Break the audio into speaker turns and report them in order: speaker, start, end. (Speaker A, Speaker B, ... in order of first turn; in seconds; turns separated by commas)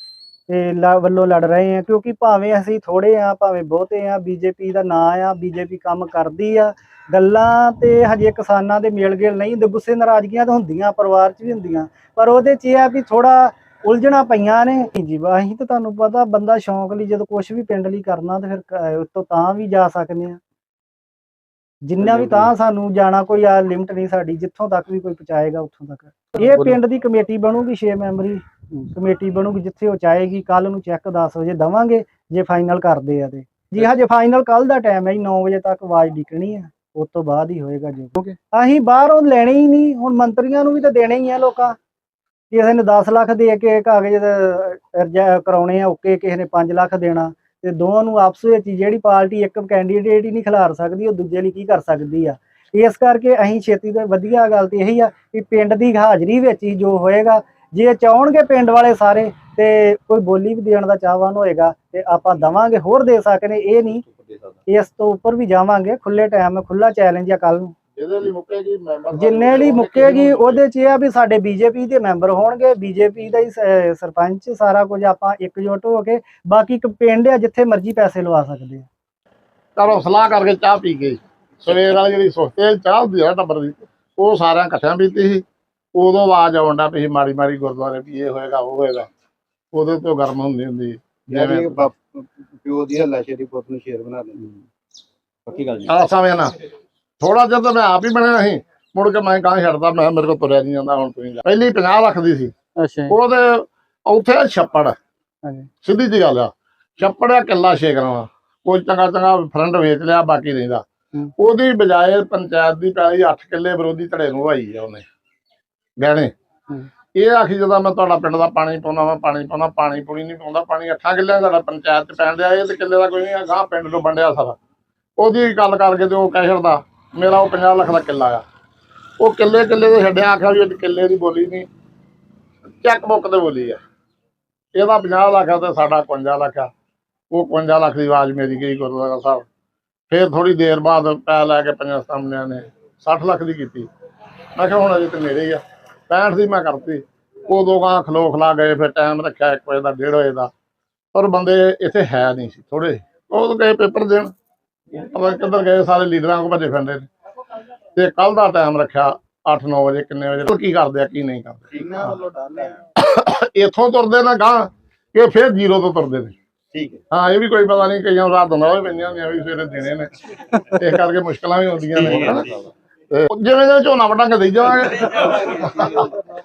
Speaker A: 0.5-20.4, Speaker A: 21.9-28.4, Speaker B: 22.0-22.5, Speaker A: 28.9-41.8, Speaker A: 42.5-64.0, Speaker B: 64.0-64.6, Speaker A: 64.7-67.8, Speaker C: 68.0-70.6, Speaker A: 69.1-78.9, Speaker C: 79.8-89.1, Speaker C: 89.7-91.9, Speaker B: 91.3-94.6, Speaker B: 95.5-95.9, Speaker C: 95.9-96.5, Speaker C: 97.2-102.5, Speaker A: 102.8-103.2, Speaker C: 103.1-105.0, Speaker A: 105.4-105.7, Speaker C: 105.8-110.8, Speaker C: 111.4-115.0, Speaker C: 116.0-116.3, Speaker C: 117.2-124.6, Speaker C: 125.2-128.4, Speaker C: 129.2-131.7, Speaker C: 132.8-133.8, Speaker C: 134.8-136.7, Speaker C: 137.3-139.4, Speaker C: 140.1-143.9, Speaker C: 144.6-150.5, Speaker C: 151.1-154.3, Speaker C: 154.9-157.1, Speaker C: 158.0-161.7, Speaker B: 161.7-162.8, Speaker C: 163.0-166.3, Speaker B: 166.7-167.0, Speaker C: 167.1-170.1, Speaker C: 170.7-172.5, Speaker B: 171.9-172.7, Speaker C: 173.1-175.9, Speaker B: 175.2-176.2